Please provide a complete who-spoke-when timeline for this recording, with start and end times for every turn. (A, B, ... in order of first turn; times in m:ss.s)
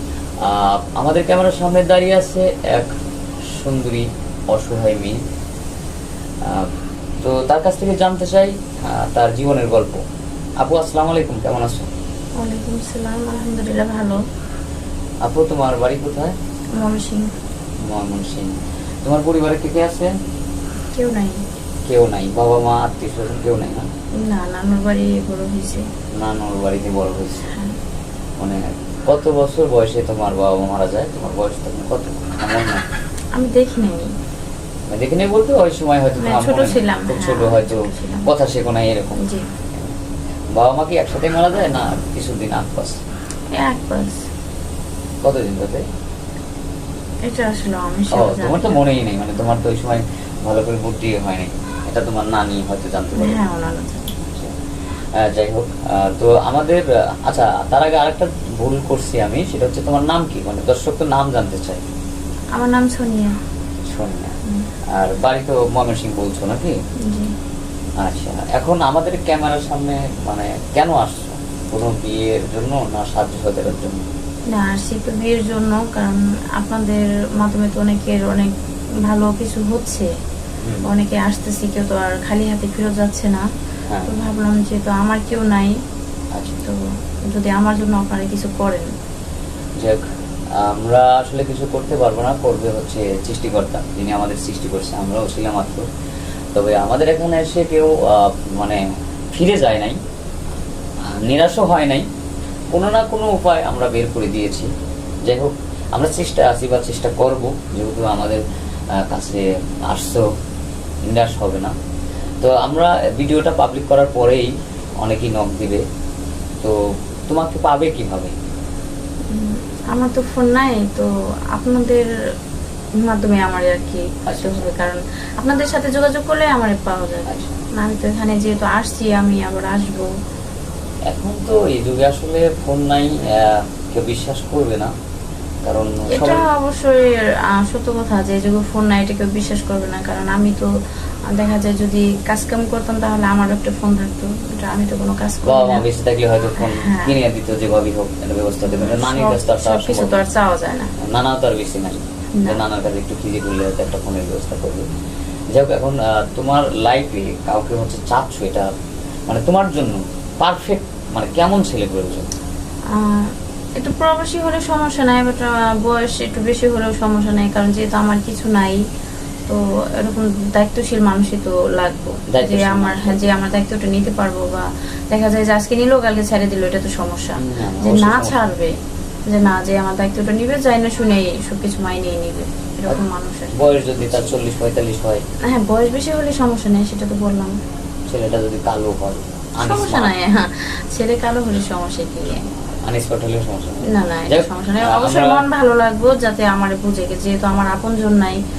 0:00.4-0:02.9 A
0:03.5-0:05.2 A
0:06.4-0:06.7 A
0:07.2-0:10.0 A
0:10.6-0:11.9 A
0:12.4-0:14.2 B
0:15.2-0:16.4 A
0:16.7-0:17.3 B
0:17.9-0:20.1 A
0:20.9-0:21.4 B
0:21.8-0:23.9 A
0:24.2-0:25.9 B
0:26.1-0:27.5 A
0:27.5-0:27.8 B
0:28.4-0:32.8 A
0:33.3-0:34.1 B
0:34.9-0:39.2 A
0:36.2-0:38.3 B
0:39.2-0:39.4 B
0:40.5-0:43.0 A
0:43.5-0:44.2 B
0:45.2-0:45.8 A
0:47.2-0:48.8 B
0:48.1-0:53.4 A
0:53.2-0:54.1 B
0:54.2-0:54.5 A
0:55.1-1:01.8 A
1:02.5-1:03.3 B
1:03.9-1:04.4 A
1:04.9-1:06.8 A
1:07.0-1:07.3 B
1:08.0-1:14.0 A
1:14.5-1:18.5 B
1:19.0-1:20.1 B
1:20.6-1:20.9 A
1:20.8-1:23.4 B
1:24.0-1:25.8 B
1:26.3-1:26.6 A
1:26.6-1:28.9 B
1:30.6-1:35.8 A
1:36.5-1:40.0 A
1:41.0-1:42.1 A
1:42.7-1:44.7 A
1:45.2-1:48.4 A
1:48.9-1:50.3 A
1:51.1-1:51.7 A
1:52.4-1:55.8 A
1:56.6-1:58.3 A
1:59.3-2:02.1 B
2:03.0-2:10.1 B
2:04.2-2:04.7 A
2:07.2-2:07.6 A
2:11.1-2:14.9 A
2:15.6-2:16.4 A
2:16.1-2:20.7 B
2:21.3-2:25.8 B
2:25.4-2:30.2 A
2:26.6-2:27.2 B
2:28.7-2:30.9 B
2:31.0-2:34.9 A
2:32.4-2:32.6 B
2:35.5-2:38.7 A
2:39.3-2:42.3 A
2:42.9-2:48.8 B
2:49.5-2:58.8 B
2:52.3-2:53.3 A
2:57.4-2:58.5 A
2:59.3-3:03.8 B
3:03.5-3:05.2 A
3:05.4-3:07.6 B
3:08.1-3:10.1 A
3:09.6-3:12.5 B
3:12.8-3:15.4 A
3:13.9-3:18.4 B